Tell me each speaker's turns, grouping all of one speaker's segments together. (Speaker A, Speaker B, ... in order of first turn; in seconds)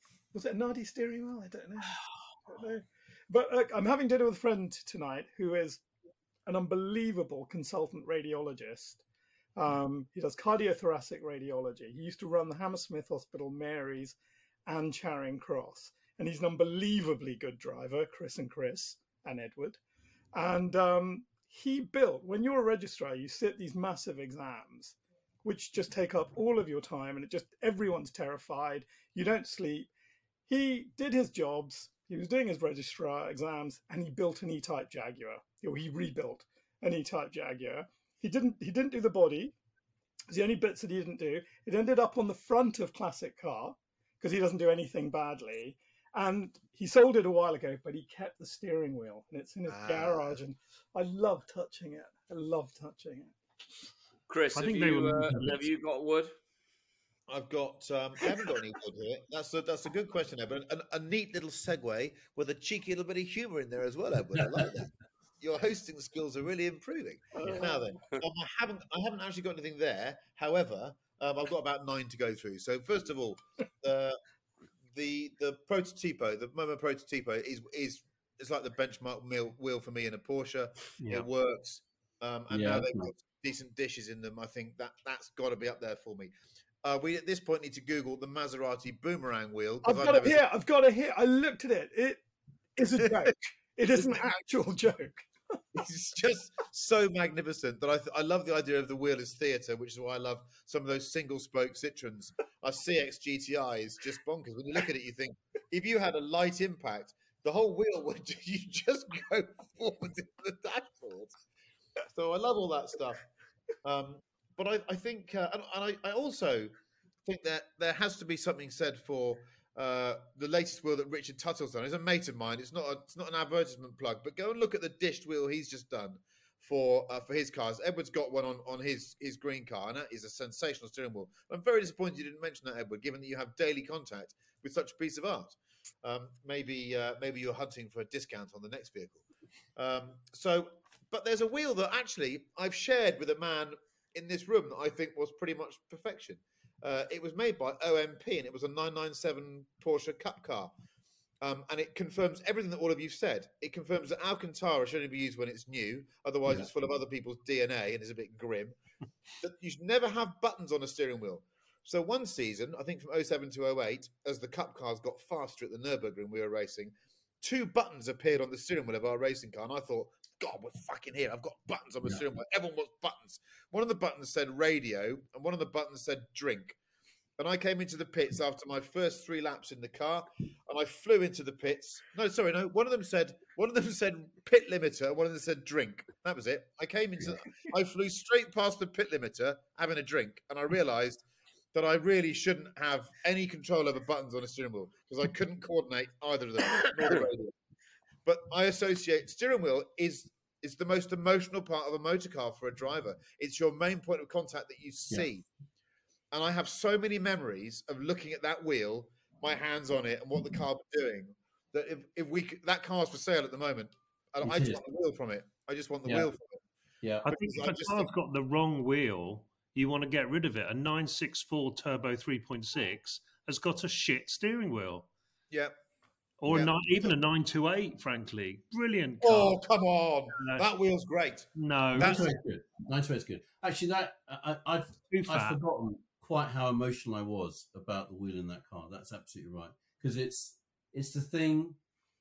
Speaker A: 0.3-5.8, 6.5-9.0, 9.6-19.8, 20.3-29.9, 30.5-39.5, 40.3-53.4, 89.8-92.2, 92.8-95.3
Speaker B: 49.7-50.4, 57.3-74.2, 74.9-86.3, 86.8-90.4, 93.0-93.3, 93.9-94.4, 95.7-111.4, 112.1-113.3, 113.8-116.7, 117.2-139.2, 139.8-150.7, 151.4-158.8, 159.4-176.8, 177.4-191.2, 191.7-197.5, 198.2-205.4, 206.3-216.6, 217.3-218.1, 226.5-227.2, 229.2-232.3
Speaker C: 54.3-56.3
Speaker D: 54.5-55.7, 81.0-81.3, 217.2-225.1, 226.4-229.6, 230.4-230.7, 231.6-232.3, 235.1-235.6
Speaker E: 82.5-83.1, 214.4-214.8, 232.0-241.8